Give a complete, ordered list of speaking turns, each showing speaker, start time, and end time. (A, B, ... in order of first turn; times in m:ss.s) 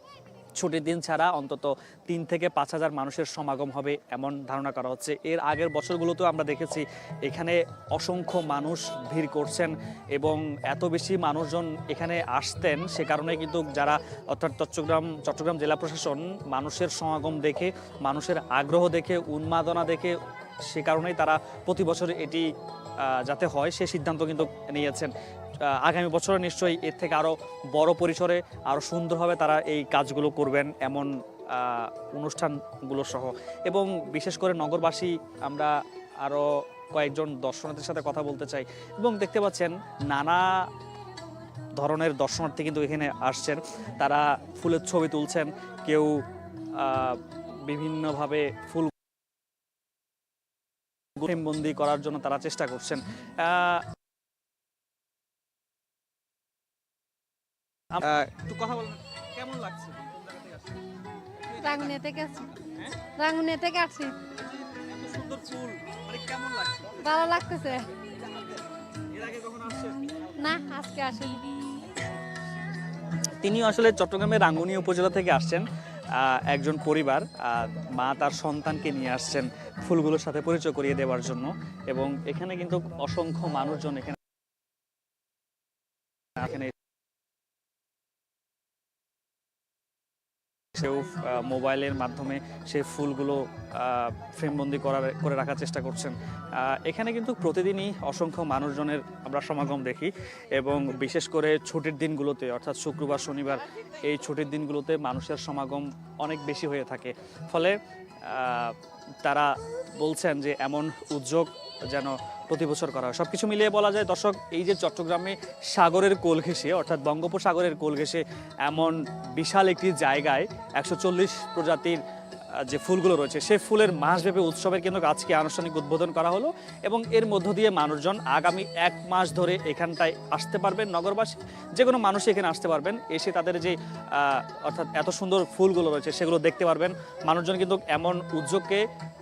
0:00.6-0:22.5 A
0:23.0-0:25.1 A
0:25.7-0:40.7 A
0:41.8-0:46.2 A
0:46.8-0:48.9 A
0:51.2-0:53.8 A
0:57.9-1:00.5 A
1:01.5-1:01.9 A
1:01.6-1:02.5 B
1:03.2-1:04.2 B
1:04.6-1:07.1 A
1:07.0-1:07.9 B
1:09.1-1:10.1 A
1:10.4-1:11.5 B
1:13.4-1:24.2 A
1:26.4-1:26.7 A
1:30.7-2:02.0 A
2:02.6-2:18.8 A